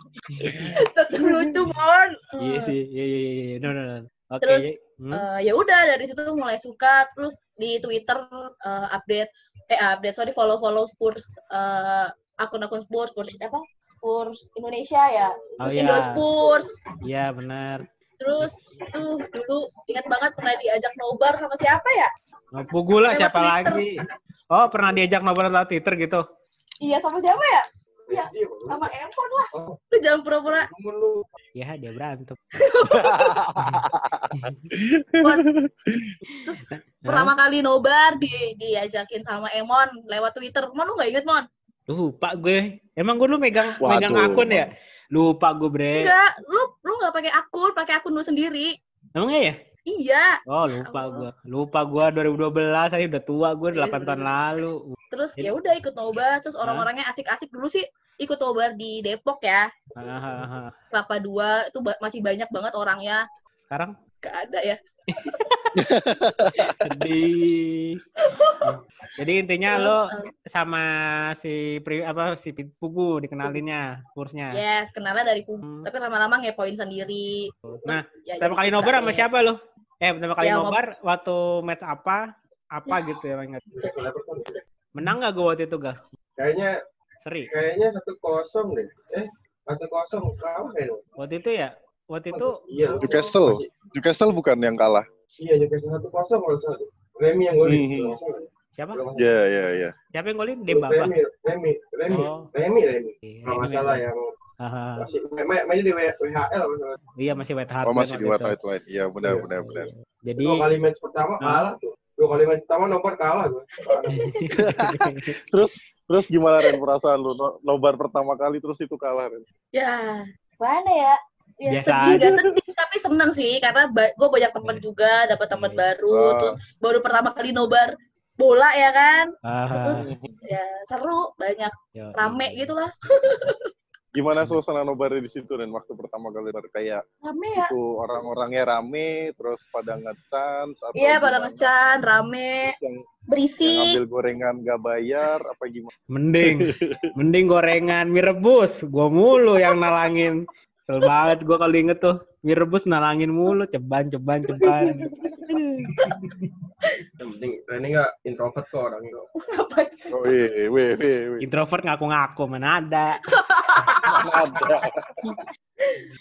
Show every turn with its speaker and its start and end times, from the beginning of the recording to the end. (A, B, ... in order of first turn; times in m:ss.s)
0:00.3-0:00.8 A
0:00.4-0:00.7 B
0:00.8-0:02.7 C
0:01.2-0:01.5 B
0:02.4-0:05.2 A
0:04.4-0:16.7 C
0:15.6-0:16.2 A
0:16.4-0:16.6 D
0:17.0-0:17.8 A
0:18.2-0:22.1 C
0:22.5-0:24.0 A
0:23.0-0:23.9 C
0:24.5-0:26.2 A
0:26.8-0:30.7 C
0:28.1-0:28.9 D
0:29.5-0:29.8 D
0:30.4-0:31.3 D
0:31.6-0:32.4 A
0:32.6-0:33.3 C
0:32.9-0:36.1 B
0:33.6-0:33.8 A
0:34.4-0:34.6 A
0:36.3-0:37.3 A
0:36.4-0:41.5 C
0:41.9-0:46.1 A
0:43.8-0:44.4 B
0:44.3-0:44.7 C
0:45.9-0:48.7 C
0:49.2-0:49.5 A
0:49.9-0:51.3 C
0:50.5-0:55.5 A
0:53.7-0:54.3 C
0:55.1-0:59.7 C
0:56.6-0:56.9 A
1:00.0-1:00.7 A
1:00.9-1:03.2 C
1:04.2-1:04.8 C
1:05.1-1:05.7 A
1:05.8-1:06.8 B
1:06.5-1:08.0 A
1:08.2-1:08.8 C
1:08.7-1:14.6 A
1:09.7-1:10.3 C
1:14.5-1:19.2 C
1:15.6-1:15.9 A
1:17.7-1:22.2 A
1:20.4-1:20.8 C
1:22.7-1:23.6 A
1:22.9-1:23.2 C
1:23.7-1:24.6 D
1:24.9-1:26.0 A
1:26.4-1:26.7 D
1:27.2-1:27.5 A
1:27.4-1:31.0 D
1:31.2-1:32.6 A
1:32.3-1:33.7 D
1:32.9-1:35.0 B
1:35.4-1:39.3 D
1:37.6-1:38.2 B
1:39.2-1:39.9 B
1:40.1-1:41.1 A
1:40.7-1:44.3 D
1:42.1-1:42.5 A
1:43.2-1:44.0 A
1:44.6-1:45.1 A
1:45.0-1:47.0 D
1:47.2-1:48.5 A
1:47.8-1:49.9 B
1:49.2-1:49.5 D
1:49.6-1:50.7 A
1:50.4-1:54.1 D
1:53.9-1:54.5 C
1:54.1-1:55.3 A
1:54.5-1:59.4 B
1:59.7-2:13.7 C
2:01.7-2:02.2 A
2:02.1-2:02.5 B
2:06.1-2:06.6 B
2:09.4-2:10.1 A
2:09.9-2:10.3 B
2:11.9-2:12.7 A
2:14.1-2:17.0 B
2:17.2-2:17.7 C
2:17.5-2:21.7 B
2:21.0-2:22.8 C
2:22.6-2:23.0 B
2:23.3-2:24.0 C
2:23.6-2:25.9 B
2:26.1-2:35.9 A
2:26.4-2:27.1 B
2:34.6-2:35.4 B
2:35.9-2:36.5 D
2:37.2-2:39.2 D
2:39.4-2:40.2 C
2:40.1-2:41.4 B
2:41.4-2:43.2 A
2:43.3-2:44.8 C
2:44.1-2:45.4 B